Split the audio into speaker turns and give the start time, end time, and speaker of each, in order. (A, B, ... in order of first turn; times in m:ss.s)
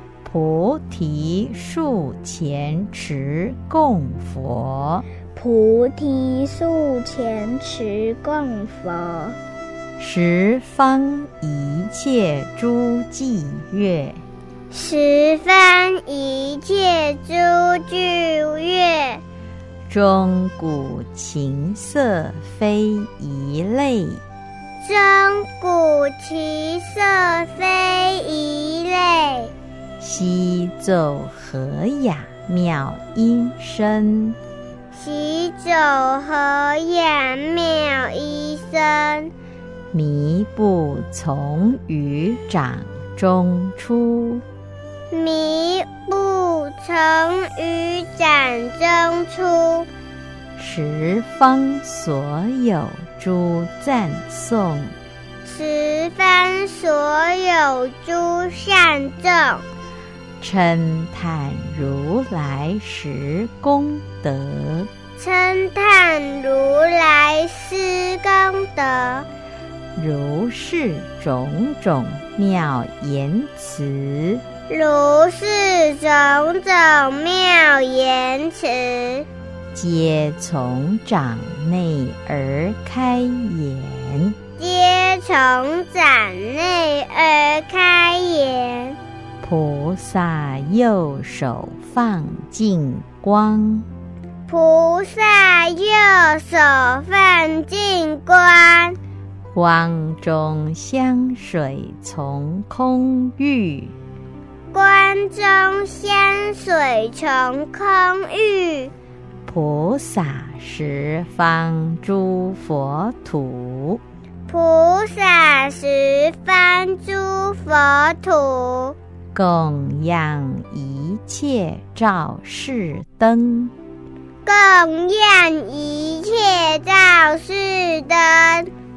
0:00.2-0:05.1 A
0:05.3-0:09.4 B
0:10.0-0:14.2 A
0:14.7-0:19.2 C
0:19.9-0:24.2 A
0:24.8-0:29.5 C
0:30.0-0:34.4 A
0:34.9-0:39.3 C
0:39.9-0:44.4 A
0:45.1-0:49.9 C
0:50.6-0:54.9 A
0:55.4-0:59.6 C
1:00.4-1:04.9 A
1:05.2-1:09.3 C
1:10.0-1:14.4 A
1:14.7-1:19.3 C
1:19.7-1:24.4 A
1:24.6-1:29.0 C
1:29.4-1:33.9 A
1:34.5-1:39.0 C
1:39.5-1:44.0 A
1:44.7-1:48.9 C
1:49.5-1:54.0 A
1:54.5-1:59.0 C
1:59.3-2:03.7 A
2:04.4-2:08.7 C